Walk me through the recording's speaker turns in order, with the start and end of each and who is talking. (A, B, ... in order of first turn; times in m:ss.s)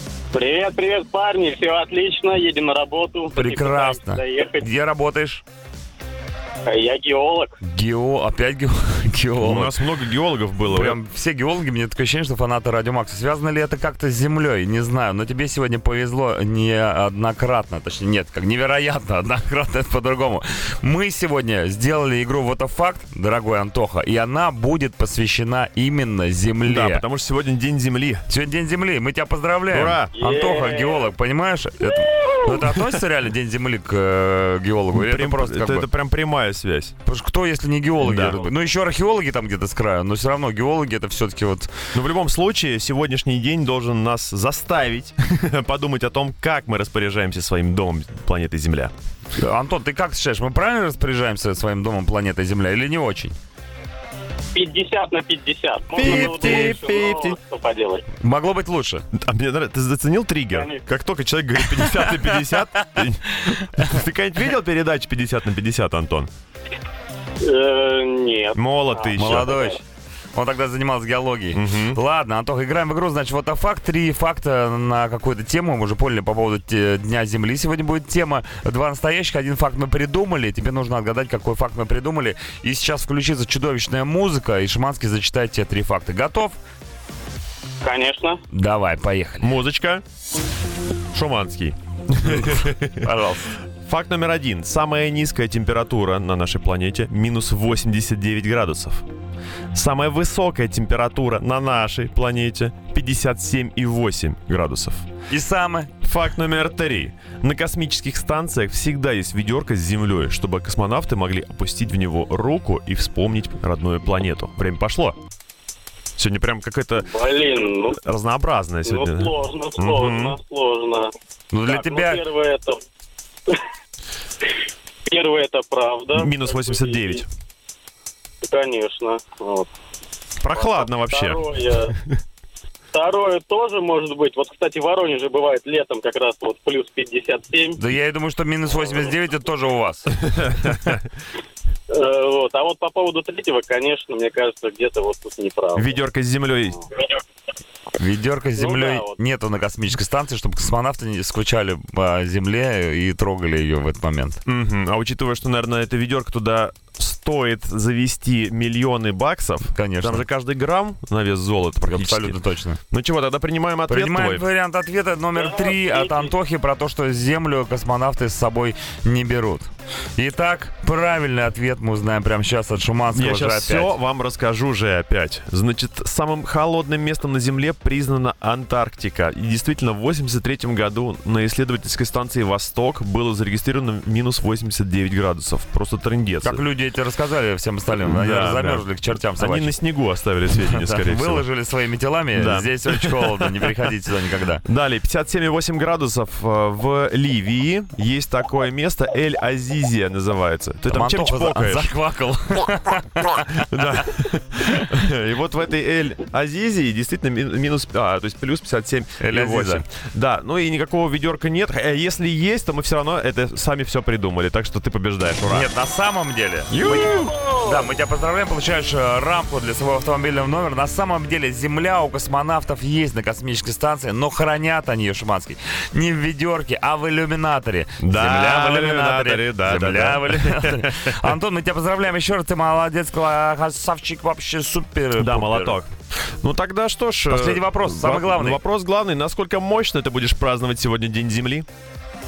0:00.3-0:04.6 A
0:03.3-0:05.4 B
0:06.6-0:07.6 A
0:07.6-0:09.7 B
0:09.4-0:11.0 C
0:10.7-0:27.0 B
0:26.6-0:28.3 C
0:28.3-0:35.9 B
0:29.7-0:30.1 C
0:30.1-0:31.1 A
0:34.9-0:36.9 C
0:37.0-0:41.7 B
0:38.0-0:38.5 C
0:41.9-0:48.9 C
0:49.3-0:53.3 B
0:54.5-0:58.0 A
0:56.0-0:57.4 C
0:56.0-0:56.7 B
0:58.2-0:59.0 B
0:59.1-1:06.3 C
1:00.5-1:00.8 A
1:01.8-1:02.8 B
1:03.4-1:03.9 B
1:07.4-1:09.8 A
1:08.5-1:09.5 C
1:09.1-1:09.8 B
1:10.3-1:26.6 B
1:11.5-1:12.0 C
1:27.8-1:28.4 A
1:28.5-1:29.5 B
1:29.4-1:30.0 C
1:31.1-1:33.1 C
1:32.2-1:33.6 B
1:33.8-1:39.0 C
1:39.7-1:45.1 C
1:45.3-1:45.9 B
1:46.0-1:55.2 C
1:56.2-1:57.1 C
1:57.1-1:58.0 A
1:58.0-2:00.4 C
1:58.8-2:01.1 A
2:01.5-2:02.2 B
2:01.6-2:02.8 A
2:05.1-2:07.2 A
2:06.1-2:07.2 C
2:08.4-2:09.7 A
2:10.4-2:11.4 C
2:10.5-2:11.9 A
2:12.9-2:17.8 A
2:17.8-2:20.1 B
2:20.3-2:21.0 C
2:21.9-2:25.9 A
2:25.7-2:26.8 C
2:28.0-2:34.4 B
2:28.6-2:29.1 A
2:34.4-2:42.4 C
2:39.7-2:40.2 B
2:41.8-2:42.8 B
2:42.9-2:44.4 C
2:43.9-2:53.9 B
2:45.4-2:46.3 A
2:53.1-3:06.6 C
3:06.4-3:09.7 B
3:07.9-3:08.8 C
3:09.4-3:11.4 C
3:10.6-3:14.6 B
3:12.3-3:13.7 C
3:14.6-3:21.9 C
3:20.9-3:23.6 B
3:23.5-3:35.7 C
3:29.2-3:29.8 B
3:35.4-3:37.1 B
3:36.7-3:37.3 C
3:36.8-3:37.7 A
3:37.6-3:55.8 B
3:48.0-3:51.1 C
3:55.2-3:55.9 C
3:56.4-4:01.6 C
3:57.3-3:58.6 B